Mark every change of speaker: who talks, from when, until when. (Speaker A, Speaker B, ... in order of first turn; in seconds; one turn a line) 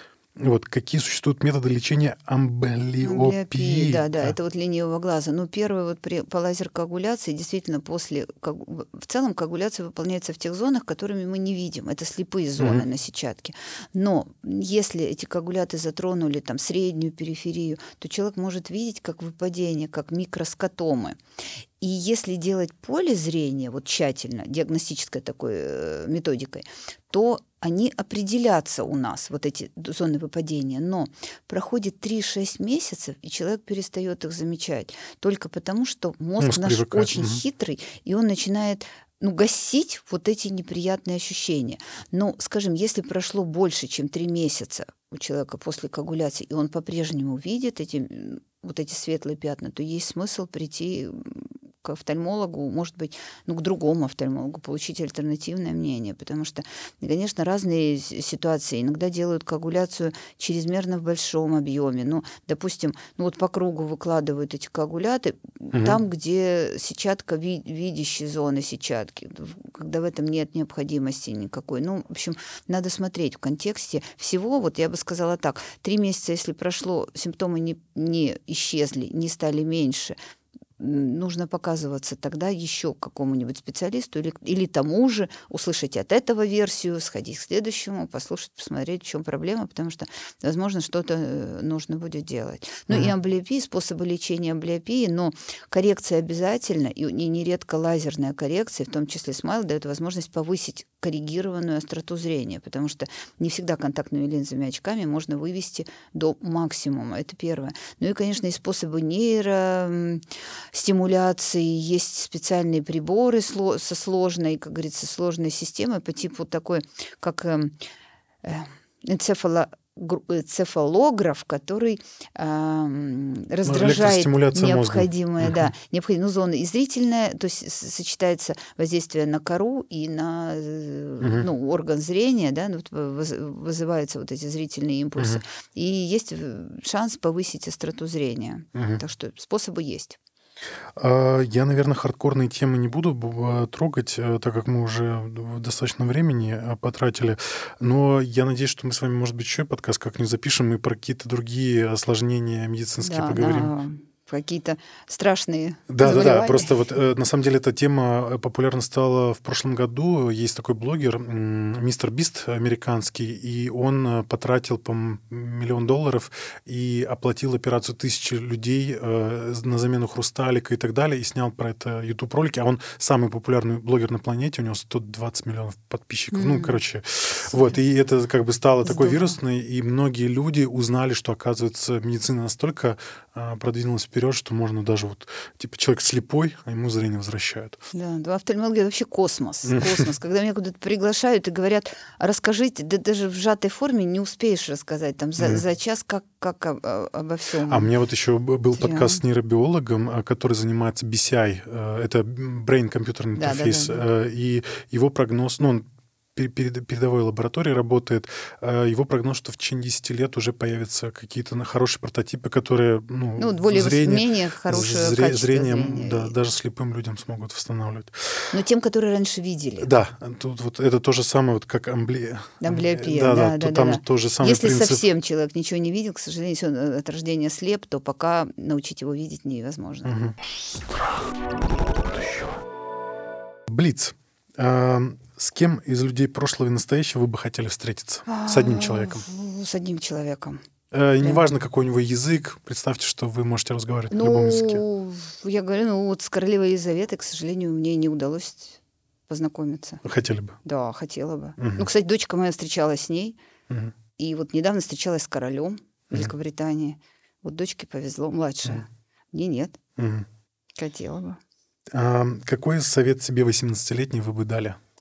Speaker A: 0.4-4.3
Speaker B: 3.0-21.2
Speaker A: 12.6-12.8
Speaker B: 21.8-80.2
Speaker A: 36.4-37.4
Speaker A: 65.7-66.0
Speaker B: 80.8-117.8
Speaker B: 118.4-140.2
Speaker A: 123.7-125.7
Speaker A: 131.2-131.5
Speaker A: 138.8-139.0
Speaker A: 141.0-153.7
Speaker B: 153.0-156.7
Speaker A: 155.9-187.8
Speaker B: 176.3-176.8
Speaker B: 177.5-177.8
Speaker B: 178.8-179.4
Speaker B: 187.9-197.9
Speaker A: 189.7-190.0
Speaker A: 197.7-205.8
Speaker B: 198.8-199.2
Speaker B: 203.4-204.1
Speaker A: 206.4-218.5
Speaker B: 213.4-216.3
Speaker B: 218.5-219.9
Speaker A: 219.8-225.0
Speaker B: 222.6-230.1
Speaker A: 230.1-230.4
Speaker A: 233.7-239.2
Speaker B: 238.3-240.6
Speaker A: 240.9-244.8
Speaker B: 244.1-250.0
Speaker A: 250.0-250.6
Speaker B: 250.7-253.4
Speaker A: 251.6-251.9
Speaker B: 254.2-259.8
Speaker A: 260.0-260.3
Speaker B: 260.8-261.4
Speaker A: 261.9-264.8